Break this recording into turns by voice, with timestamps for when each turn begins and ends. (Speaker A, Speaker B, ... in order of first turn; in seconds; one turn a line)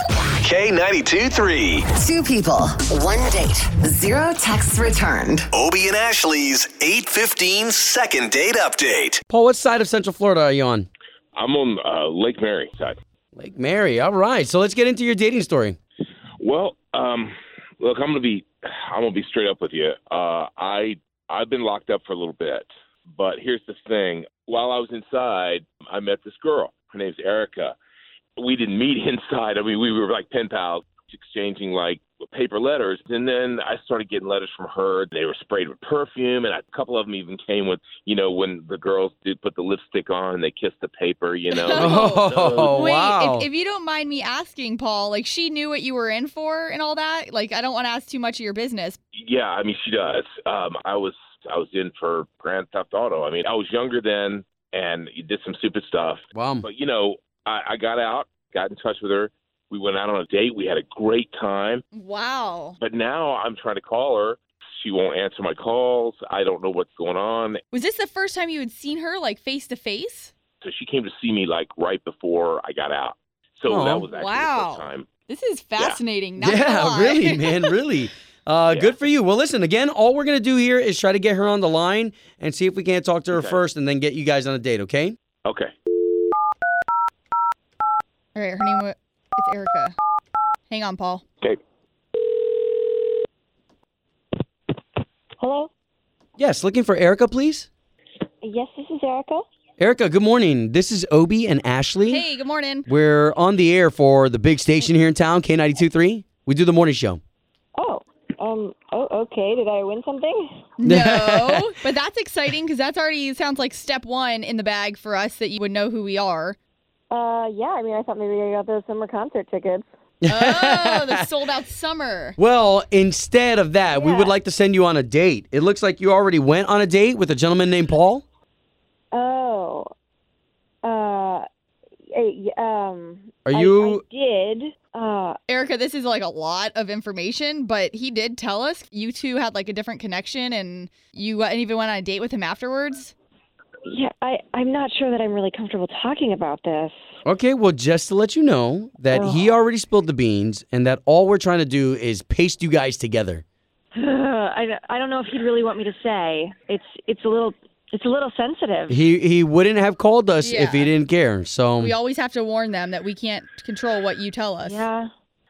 Speaker A: 0.4-1.9
Speaker B: 1.9-5.5
Speaker A: 5.5-9.2
Speaker C: 9.3-10.9
Speaker D: 11.3-13.0
Speaker C: 13.3-15.8
Speaker D: 16.4-27.8
Speaker D: 28.4-42.9
Speaker E: 41.5-49.0
Speaker C: 41.7-43.5
Speaker D: 49.2-61.8
Speaker C: 56.3-56.7
Speaker E: 61.9-62.8
Speaker D: 62.8-67.6
Speaker E: 67.7-70.3
Speaker D: 70.6-75.2
Speaker C: 73.7-74.1
Speaker E: 74.1-77.7
Speaker D: 75.8-76.0
Speaker C: 76.4-85.2
Speaker D: 78.7-78.9
Speaker D: 83.3-83.6
Speaker D: 85.4-85.7
Speaker E: 88.3-90.0
Speaker E: 90.7-91.2
Speaker F: 95.4-95.7
Speaker C: 96.4-97.7
Speaker F: 98.4-99.4
Speaker C: 99.8-102.2
Speaker E: 102.1-102.8
Speaker C: 102.9-107.2
Speaker F: 107.8-110.7
Speaker E: 110.8-116.6
Speaker C: 110.8-111.8
Speaker F: 117.1-119.8
Speaker C: 120.2-121.2
Speaker E: 120.3-122.4
Speaker C: 122.4-128.2
Speaker F: 123.9-124.3
Speaker F: 129.1-129.9
Speaker F: 130.8-131.4
Speaker F: 132.1-135.4
Speaker C: 133.4-134.0
Speaker E: 135.5-143.1
Speaker F: 143.8-146.9
Speaker C: 147.2-153.4
Speaker F: 149.1-149.5
Speaker F: 153.9-158.9
Speaker C: 158.9-161.9
Speaker E: 160.4-160.9
Speaker E: 161.8-164.8
Speaker F: 164.6-165.1